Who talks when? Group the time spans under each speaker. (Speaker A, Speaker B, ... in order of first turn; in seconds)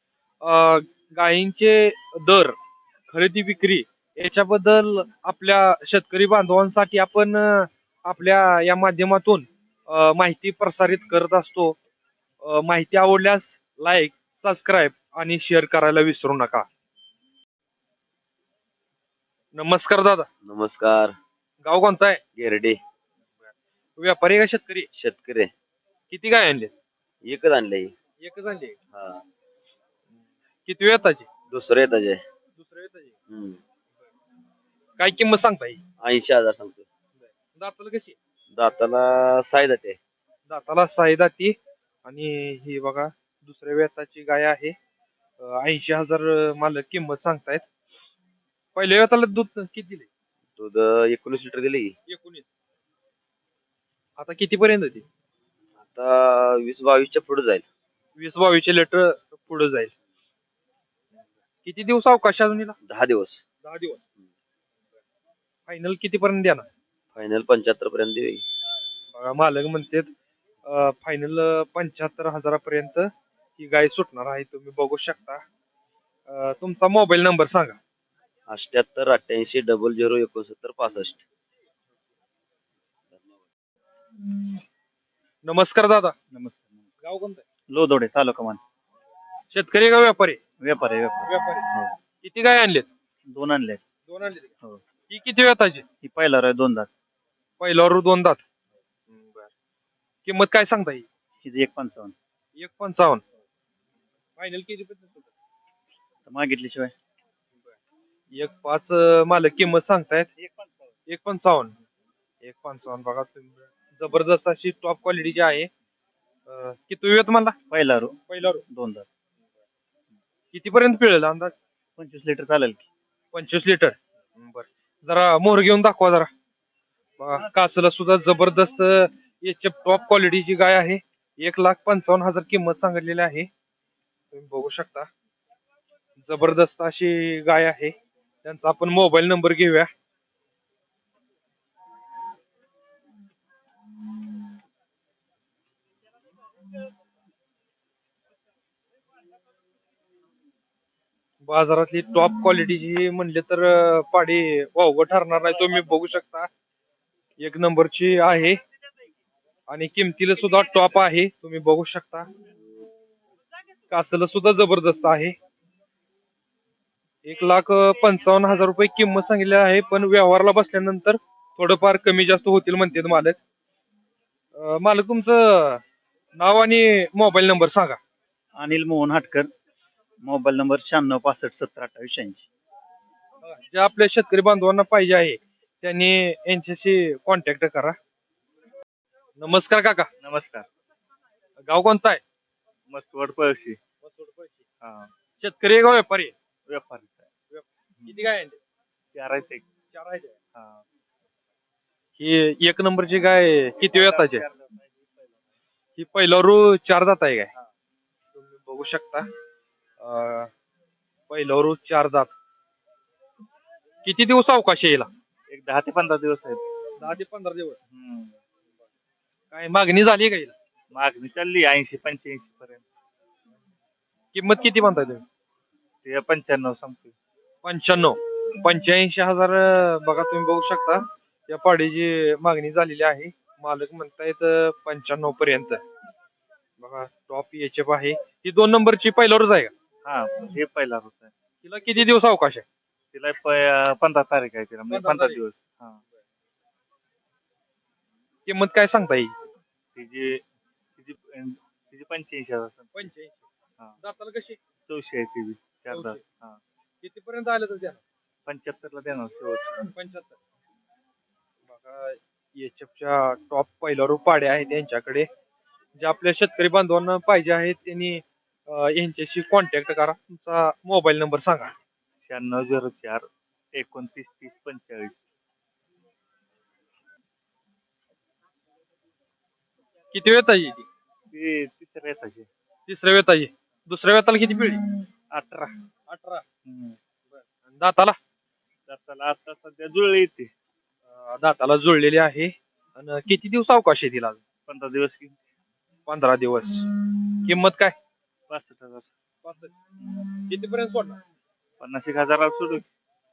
Speaker A: 0.4-2.5, 3.1-11.8, 12.4-16.7, 19.5-20.3, 21.6-22.2, 24.0-24.9, 26.1-26.7, 28.2-28.8, 30.7-31.3, 32.6-33.1, 35.0-35.8, 37.2-38.1, 40.5-44.7, 45.4-47.6, 48.8-50.1, 52.1-52.5, 54.2-55.0, 58.2-59.9, 61.6-62.8, 63.6-64.0, 65.7-66.7, 69.1-70.1, 70.7-75.4, 76.3-77.8, 85.5-86.1, 87.0-87.4, 89.5-90.4, 91.3-91.7, 92.2-92.9, 94.1-94.5, 95.1-95.8, 97.6-98.4, 99.1-99.5, 100.2-101.1, 102.6-103.2, 104.4-105.3, 108.3-110.3, 111.1-111.8, 112.4-115.7, 116.5-117.5, 118.3-118.6, 120.5-121.5, 123.3-126.3, 127.2-133.5, 134.3-135.1, 136.2-137.9, 138.4-139.9, 151.4-156.5, 157.4-158.6, 159.7-162.3, 163.9-165.3, 167.2-173.4, 174.6-175.8, 176.4-178.0, 183.4-188.0, 189.4-190.1, 191.7-192.2, 194.0-194.6, 195.4-196.3, 197.5-198.6, 199.9-200.3, 202.2-204.4, 206.0-207.5, 208.3-209.2, 210.0-210.5, 211.3-212.3, 214.1-215.1, 217.0-217.8, 219.5-220.5, 224.3-225.2, 227.6-235.8, 236.8-239.7, 241.6-242.6, 244.9-245.4, 248.5-249.3, 252.9-253.4, 254.0-254.6, 255.9-256.2, 257.0-258.0, 259.9-260.4, 261.7-265.3, 266.0-271.7, 280.1-280.9, 282.9-284.8, 286.1-286.4, 287.3-288.2, 291.1-294.4, 296.1-296.9, 297.4-297.9, 299.4-299.7, 300.5-301.2
Speaker B: 20.4-21.1, 22.4-22.8, 25.0-25.5, 27.2-27.9, 28.9-29.2, 31.5-32.2, 33.3-33.6, 36.0-36.8, 38.5-40.0, 50.6-51.9, 55.9-57.6, 62.9-63.4, 67.2-68.4, 78.5-81.2
Speaker C: 86.3-86.7, 87.7-88.6, 90.6-91.9, 93.3-93.8, 96.0-96.9, 101.4-102.1, 106.3-106.9, 110.4-110.7, 117.7-119.1, 122.0-122.9, 178.6-179.5, 180.2-182.5, 190.2-190.7, 192.9-193.8, 194.8-195.1, 196.7-197.2, 199.1-199.7, 200.6-200.8, 203.8-205.1, 215.5-216.6, 217.9-218.3, 220.9-222.8, 226.0-227.1, 240.1-241.3, 243.1-246.0, 249.9-250.4, 251.0-253.1, 254.9-256.6, 258.5-259.9, 272.2-275.3, 281.3-282.5, 285.3-285.7, 286.6-287.0, 288.9-290.5, 294.7-295.4, 298.5-299.1, 300.0-300.3, 301.8-302.8